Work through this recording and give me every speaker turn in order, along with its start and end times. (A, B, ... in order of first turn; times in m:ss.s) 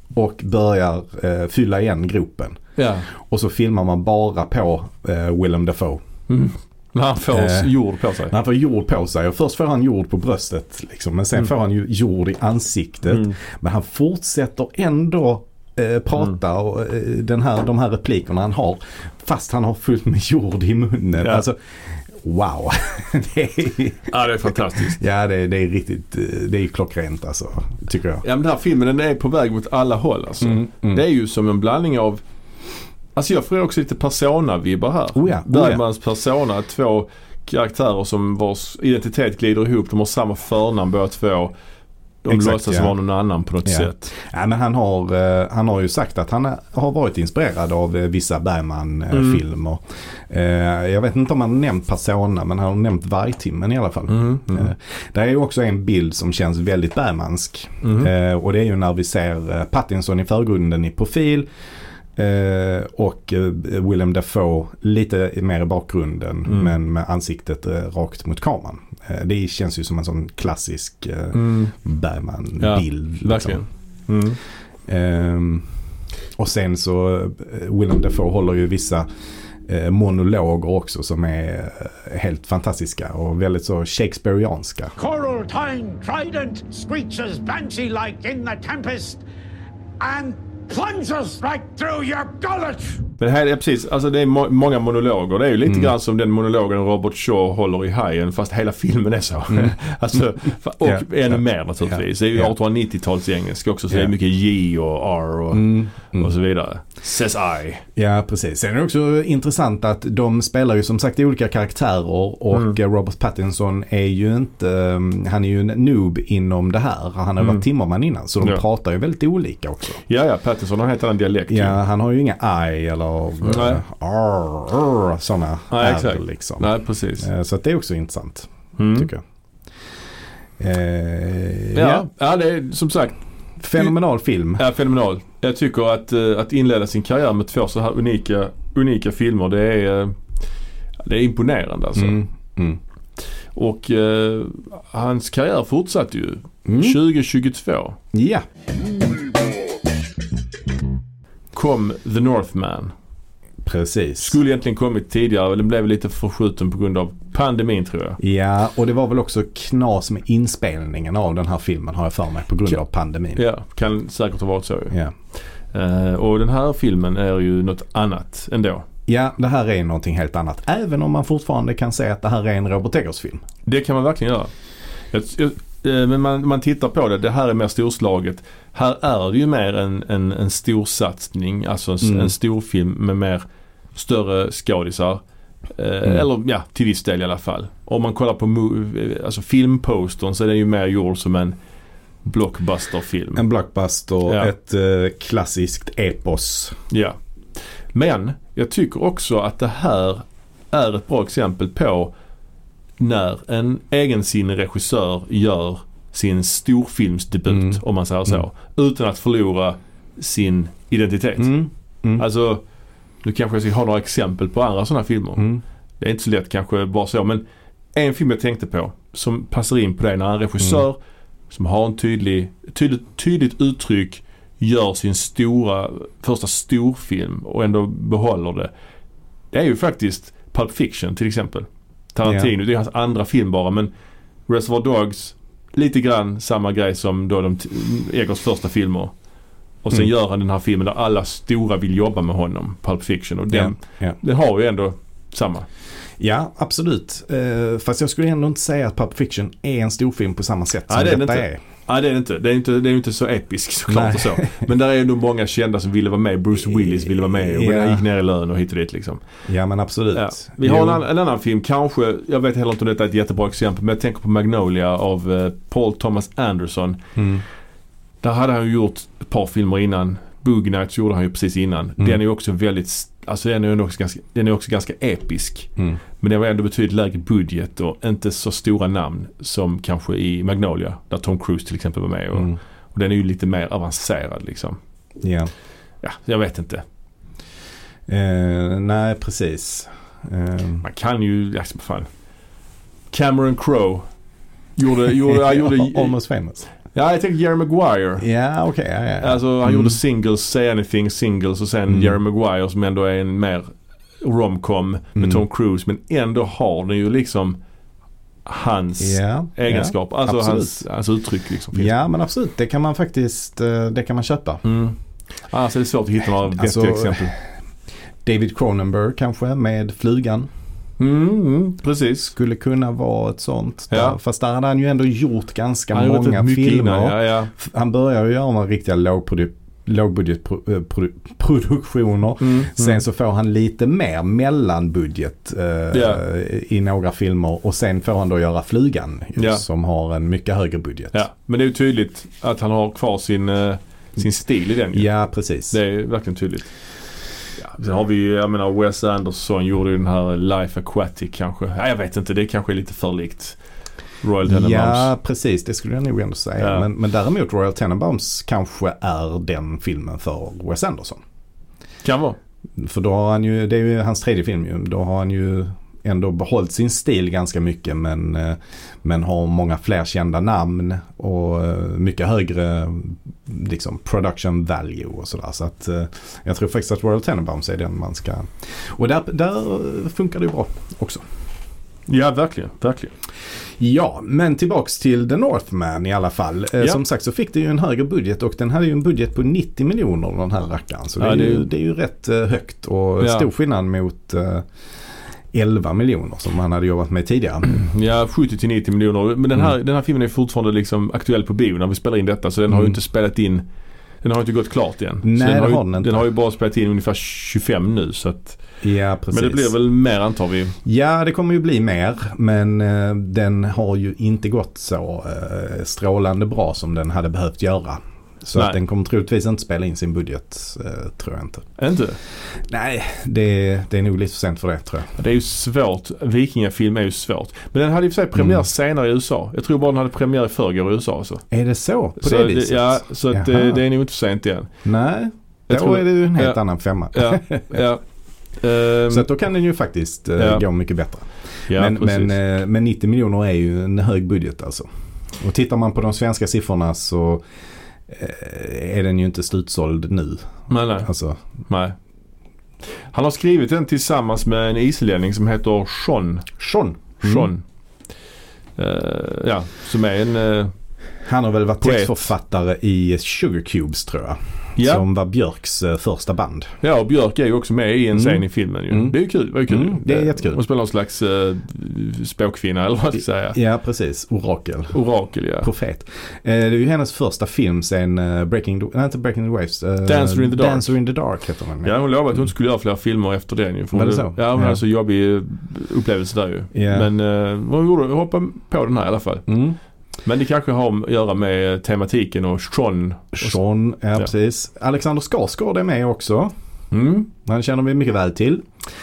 0:00.1-0:02.6 A
0:02.8-0:03.1 B
0:03.1-0:06.0 A
0:06.3-0:08.3 B
0:07.3-0:07.7 A
0:08.3-0:24.1 A
0:13.1-0:13.4 B
0:24.1-0:25.0 B
0:24.8-0:28.2 A
0:28.2-0:32.2 B
0:30.4-0:31.0 A
0:33.1-0:41.5 B
0:35.2-0:35.8 A
0:42.2-0:44.1 B
0:42.3-0:42.9 A
0:43.6-1:01.4 A
0:49.1-0:49.4 B
0:54.1-0:54.7 B
0:57.8-0:58.1 B
1:02.2-1:13.6 A
1:06.4-1:06.7 B
1:11.3-1:11.7 B
1:12.6-1:14.4 B
1:14.9-1:15.7 A
1:16.4-1:19.0 A
1:19.6-1:24.9 A
1:25.0-1:29.2 C
1:30.0-1:33.0 C
1:33.2-1:47.8 B
1:35.6-1:35.9 A
1:39.5-1:39.8 A
1:40.8-1:42.5 A
1:45.5-1:46.3 A
1:48.0-2:00.0 A
2:00.0-2:01.8 B
2:01.5-2:09.2 A
2:03.4-2:03.8 B
2:05.7-2:07.3 B
2:08.8-2:09.1 B
2:10.6-2:12.1 A
2:11.7-2:13.2 B
2:13.6-2:14.6 A
2:14.6-2:20.2 B
2:21.0-2:22.2 B
2:22.0-2:22.8 A
2:23.5-2:28.0 B
2:26.6-2:27.0 A
2:28.1-2:28.4 A
2:31.5-2:32.9 B
2:33.6-2:34.4 A
2:34.2-2:38.2 B
2:38.2-2:43.4 A
2:43.3-2:45.0 B
2:45.7-2:48.8 B
2:49.1-2:53.4 A
2:53.6-2:54.5 B
2:55.1-3:05.2 B
3:02.0-3:02.3 A
3:05.7-3:11.6 B
3:12.2-3:13.4 B
3:13.4-3:16.8 A
3:14.2-3:14.5 B
3:16.9-3:17.2 B
3:17.9-3:22.1 B
3:23.0-3:31.6 B
3:27.5-3:28.4 A
3:31.4-3:32.2 A
3:32.2-3:32.6 B
3:33.2-3:37.4 B
3:37.9-3:41.0 B
3:41.5-3:48.7 B
3:49.5-3:53.9 B
3:52.2-3:52.5 A
3:54.5-3:59.1 B
3:59.8-4:05.7 B
4:03.5-4:04.2 A
4:06.2-4:11.6 A
4:10.9-4:19.2 B
4:13.9-4:14.5 A
4:16.7-4:18.0 A
4:19.5-4:21.0 A
4:20.1-4:27.0 B
4:27.2-4:27.4 A
4:28.2-4:44.8 B
4:45.2-4:45.5 A
4:46.0-4:46.8 B
4:48.1-4:50.8 A
4:50.8-4:52.1 B
4:53.1-4:54.1 B
4:54.8-4:56.1 B
4:55.2-4:56.7 A
4:56.9-4:58.2 B
4:58.2-5:00.0 A
4:59.2-5:07.6 B
5:01.9-5:02.2 A
5:05.2-5:05.4 A
5:08.4-5:11.9 B
5:09.0-5:10.8 A
5:11.7-5:14.6 A
5:14.6-5:15.0 B
5:15.5-5:17.3 B
5:16.5-5:17.4 A
5:18.2-5:20.5 A
5:21.0-5:22.3 B
5:22.3-5:41.2 A
5:23.9-5:24.2 B
5:25.9-5:27.5 B
5:32.4-5:33.0 B
5:35.9-5:36.2 B
5:39.4-5:39.6 B
5:41.1-5:45.1 B
5:44.9-5:45.8 A
5:45.7-5:46.7 B
5:47.6-5:53.6 B
5:54.2-5:55.1 B
5:54.4-6:01.2 A
5:56.6-5:56.9 B
6:02.0-6:02.4 B
6:02.8-6:21.2 A
6:22.1-6:23.1 B
6:23.8-6:34.6 A
6:31.2-6:31.6 B
6:33.2-6:33.5 B
6:35.5-6:37.7 A
6:37.6-6:43.6 B
6:42.7-6:43.0 A
6:44.2-6:48.6 B
6:45.2-6:46.2 A
6:48.8-6:49.7 A
6:49.3-6:50.7 B
6:50.8-7:01.7 A
7:01.8-7:02.2 B
7:02.5-7:05.1 A
7:05.2-7:11.4 B
7:08.4-7:08.6 A
7:11.5-7:13.8 A
7:12.2-7:14.7 B
7:14.8-7:17.8 A
7:15.7-7:16.6 B
7:17.1-7:18.0 B
7:18.6-7:19.3 B
7:19.1-7:24.9 A
7:20.4-7:20.6 B
7:21.7-7:22.4 B
7:25.4-7:27.4 A
7:28.1-7:31.4 A
7:30.7-7:31.1 B
7:31.6-7:32.0 B
7:33.1-7:36.5 B
7:36.6-7:37.5 A
7:37.2-7:37.6 B
7:38.8-7:40.7 B
7:41.2-7:46.7 A
7:41.8-7:42.3 B
7:44.8-7:45.0 B
7:46.8-7:53.6 B
7:48.1-7:49.2 A
7:49.7-7:50.6 A
7:53.5-7:55.0 A
7:54.9-7:55.7 B
7:55.6-8:01.9 A
8:00.0-8:00.9 B
8:01.8-8:09.5 B
8:03.9-8:04.8 A
8:06.7-8:07.1 A
8:09.5-8:09.8 A
8:10.2-8:13.6 B
8:13.3-8:16.5 A
8:16.9-8:17.3 B
8:17.4-8:18.6 A